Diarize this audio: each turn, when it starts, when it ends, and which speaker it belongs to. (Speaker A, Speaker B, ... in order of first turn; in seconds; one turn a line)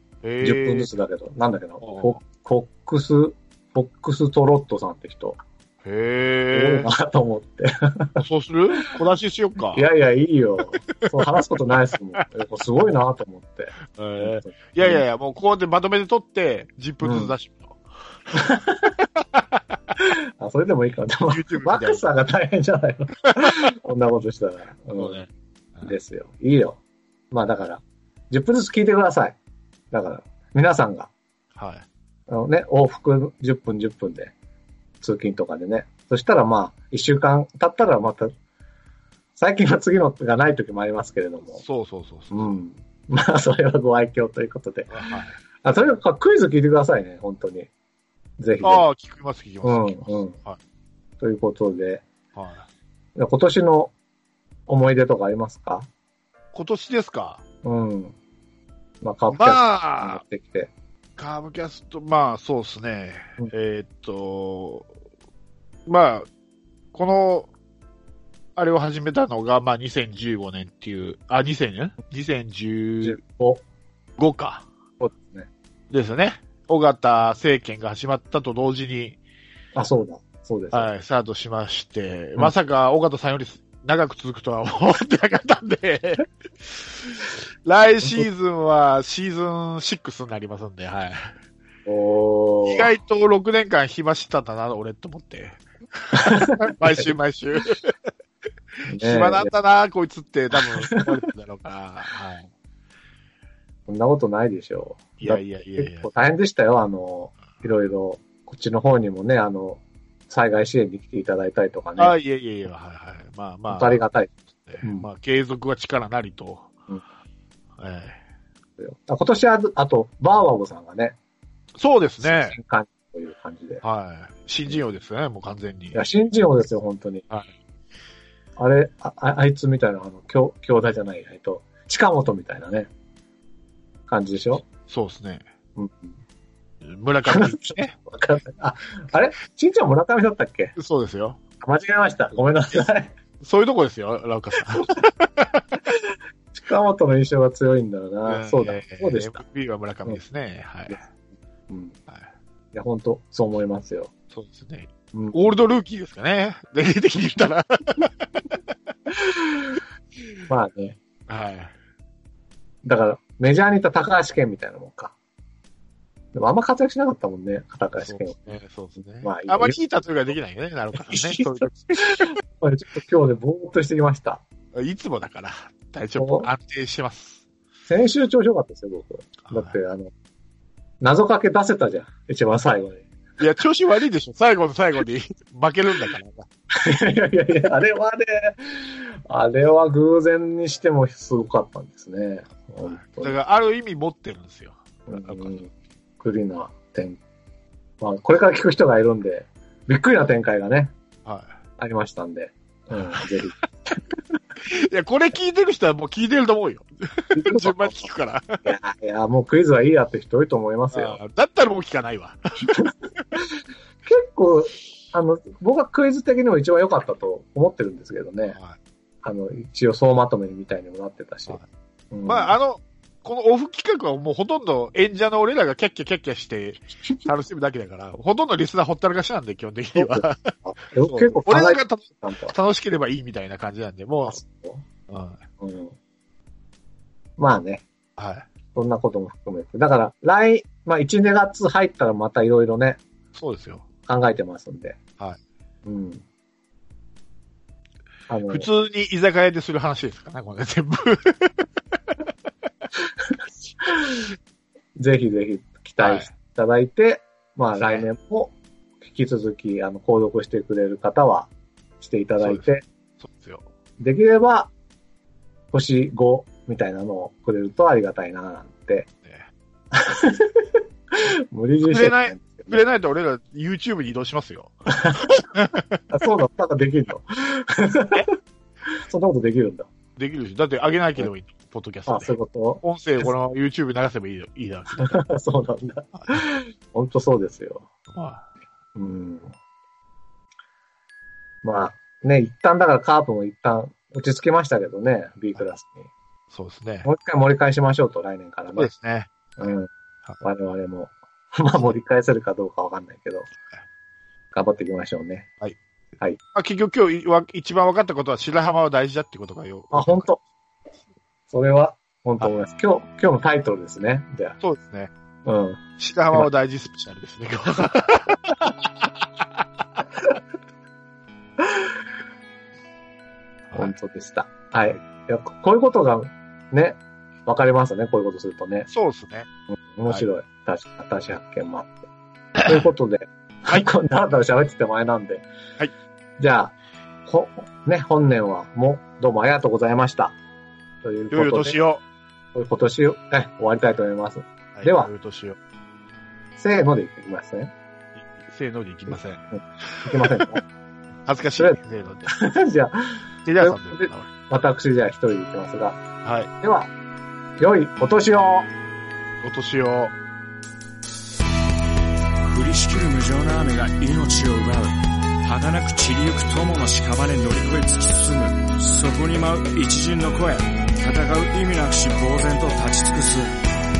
Speaker A: 0.2-0.9
Speaker B: 0.4-5.4
Speaker A: 1.8-2.2
Speaker A: 5.8-6.9
Speaker B: 6.5-8.2
Speaker A: 8.2-9.9
Speaker B: 9.7-15.0
Speaker A: 13.9-17.8
Speaker B: 17.0-17.3
Speaker B: 18.3-18.9
Speaker B: 20.0-25.2
Speaker A: 21.3-22.0
Speaker A: 25.0-25.9
Speaker B: 25.8-26.8
Speaker B: 27.3-29.4
Speaker B: 29.9-31.1
Speaker A: 31.5-31.9
Speaker B: 32.3-34.3
Speaker B: 35.0-38.3
Speaker B: 39.4-41.6
Speaker A: 41.5-42.5
Speaker B: 42.3-45.0
Speaker A: 44.9-45.4
Speaker B: 45.6-47.7
Speaker B: 48.4-48.8
Speaker A: 48.6-50.6
Speaker B: 49.6-50.4
Speaker B: 51.2-52.0
Speaker A: 52.3-52.6
Speaker B: 53.1-53.9
Speaker B: 54.7-55.9
Speaker A: 56.5-57.4
Speaker B: 57.6-58.1
Speaker B: 59.0-60.7
Speaker A: 59.3-60.2
Speaker A: 61.2-64.9
Speaker A: 65.9-66.3
Speaker A: 66.9-67.5
Speaker A: 68.5-73.2
Speaker B: 73.0-73.6
Speaker A: 74.2-74.7
Speaker B: 75.0-75.5
Speaker A: 75.9-79.2
Speaker B: 79.8-80.9
Speaker A: 80.7-91.3
Speaker B: 91.8-92.9
Speaker A: 92.7-98.0
Speaker B: 96.1-97.1
Speaker A: 98.8-102.5
Speaker B: 98.8-99.5
Speaker B: 100.5-101.0
Speaker B: 103.9-112.2
Speaker A: 105.2-106.1
Speaker A: 112.0-114.0
Speaker B: 113.7-114.3
Speaker A: 114.6-116.7
Speaker A: 117.8-118.2
Speaker B: 118.8-121.2
Speaker A: 121.8-122.6
Speaker B: 122.2-123.8
Speaker A: 123.8-126.0
Speaker B: 125.9-127.2
Speaker B: 128.6-132.9
Speaker B: 134.1-134.7
Speaker A: 134.7-135.4
Speaker B: 135.8-136.1
Speaker A: 136.8-137.9
Speaker B: 137.2-140.8
Speaker A: 140.8-141.4
Speaker B: 141.6-143.1
Speaker A: 143.4-145.6
Speaker B: 146.5-149.4
Speaker A: 148.3-151.0
Speaker B: 151.7-151.9
Speaker B: 152.7-154.1
Speaker A: 154.3-158.6
Speaker B: 155.1-155.5
Speaker B: 159.1-159.8
Speaker B: 160.5-161.0
Speaker A: 161.3-161.7
Speaker B: 162.8-165.1
Speaker B: 166.3-168.3
Speaker A: 168.0-172.3
Speaker B: 169.2-169.8
Speaker B: 171.0-174.4
Speaker A: 174.7-177.4
Speaker B: 176.2-176.5
Speaker B: 177.8-180.1
Speaker A: 179.5-179.7
Speaker B: 181.0-183.1
Speaker A: 183.4-186.4
Speaker B: 186.7-193.3
Speaker A: 192.8-195.6
Speaker B: 195.1-197.2
Speaker B: 198.0-200.9
Speaker A: 201.2-201.5
Speaker B: 201.8-204.0
Speaker A: 204.6-208.6
Speaker B: 207.3-208.0
Speaker B: 208.6-211.2
Speaker A: 210.9-212.4
Speaker B: 214.1-218.6
Speaker B: 219.2-222.5
Speaker A: 222.2-234.4
Speaker B: 229.9-232.5
Speaker B: 234.2-234.8
Speaker A: 235.1-235.4
Speaker B: 235.6-235.9
Speaker B: 237.4-237.8
Speaker A: 238.2-238.4
Speaker B: 238.7-243.0
Speaker A: 243.3-243.8
Speaker B: 244.1-245.0
Speaker B: 245.8-246.2
Speaker B: 248.3-248.7
Speaker A: 248.5-251.7
Speaker B: 253.8-254.2
Speaker B: 255.0-262.8
Speaker A: 256.0-256.3
Speaker A: 257.8-258.1
Speaker A: 262.4-263.7
Speaker B: 264.0-264.7
Speaker B: 265.7-269.1
Speaker B: 269.9-272.8
Speaker A: 271.9-274.7
Speaker B: 274.9-275.4
Speaker A: 275.5-276.0
Speaker B: 276.1-278.2
Speaker B: 279.1-279.9
Speaker A: 280.2-285.2
Speaker B: 282.1-283.3
Speaker B: 285.0-287.9
Speaker A: 288.1-288.4
Speaker B: 288.9-289.5
Speaker B: 291.6-296.1
Speaker A: 296.5-297.1
Speaker B: 297.0-298.9
Speaker A: 298.8-299.7
Speaker B: 299.6-299.9
Speaker B: 300.4-303.5
Speaker B: 304.5-305.5
Speaker A: 306.5-310.3
Speaker B: 309.9-310.4
Speaker B: 311.5-314.6
Speaker A: 314.6-315.1
Speaker B: 315.4-315.8
Speaker A: 316.0-319.6
Speaker B: 323.7-328.9
Speaker A: 328.9-329.5
Speaker B: 329.7-332.0
Speaker A: 332.6-332.9
Speaker B: 332.6-335.5
Speaker B: 336.4-336.7
Speaker B: 337.3-340.4
Speaker B: 341.0-341.8
Speaker A: 341.3-342.0
Speaker B: 342.5-345.1
Speaker A: 344.7-345.6
Speaker B: 346.6-347.7
Speaker A: 348.2-349.4
Speaker B: 349.5-350.6
Speaker A: 350.0-350.6
Speaker A: 351.2-352.3
Speaker B: 351.6-356.0
Speaker A: 353.4-354.3
Speaker A: 356.2-356.5
Speaker B: 356.6-356.9
Speaker B: 357.6-358.7
Speaker A: 359.4-360.1
Speaker C: 362.4-373.6